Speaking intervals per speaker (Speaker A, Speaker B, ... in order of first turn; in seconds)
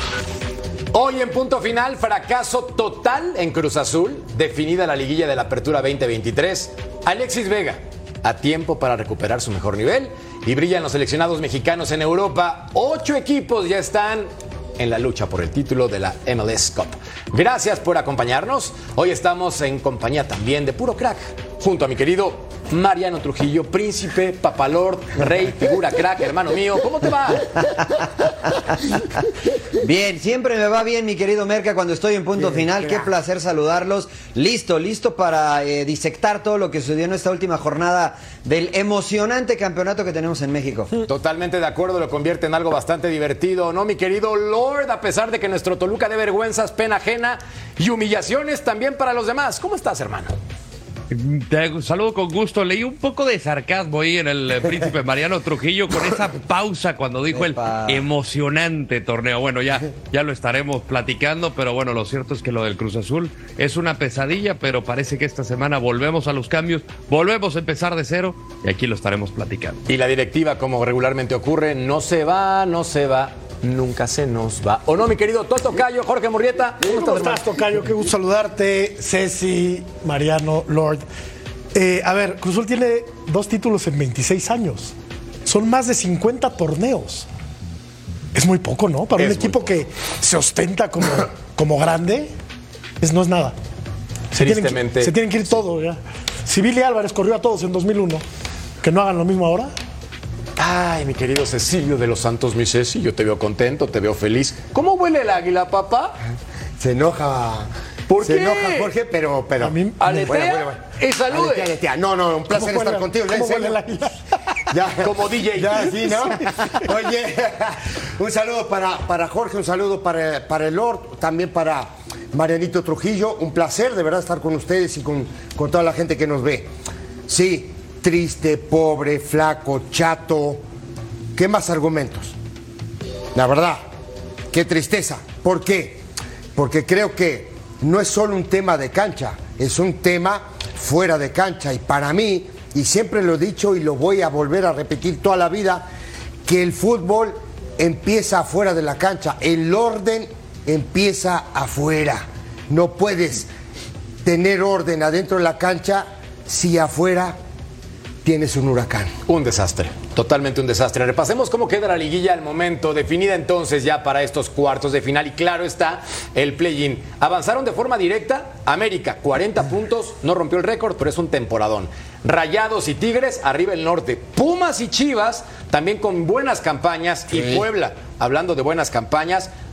Speaker A: 0.9-27.5, 41.0-50.3, 69.9-76.9, 89.2-89.8, 94.3-95.6, 100.6-106.2, 108.1-108.9, 110.0-111.7, 115.0-116.2, 159.3-179.5
Speaker B: 29.8-40.9, 57.3-58.0
Speaker C: 51.1-69.8
Speaker D: 76.8-81.0, 81.7-84.9, 85.5-87.3, 88.3-92.3, 93.0-93.5, 94.3-98.2, 98.8-99.7, 109.6-110.3, 112.5-114.1, 116.3-116.7
Speaker E: 106.8-107.7, 108.2-110.8, 111.3-114.0, 114.7-126.7, 127.3-130.6, 131.3-132.3, 133.3-133.8, 134.5-136.0, 136.6-145.9, 146.4-153.5, 154.2-157.4, 158.2-159.1, 177.3-177.6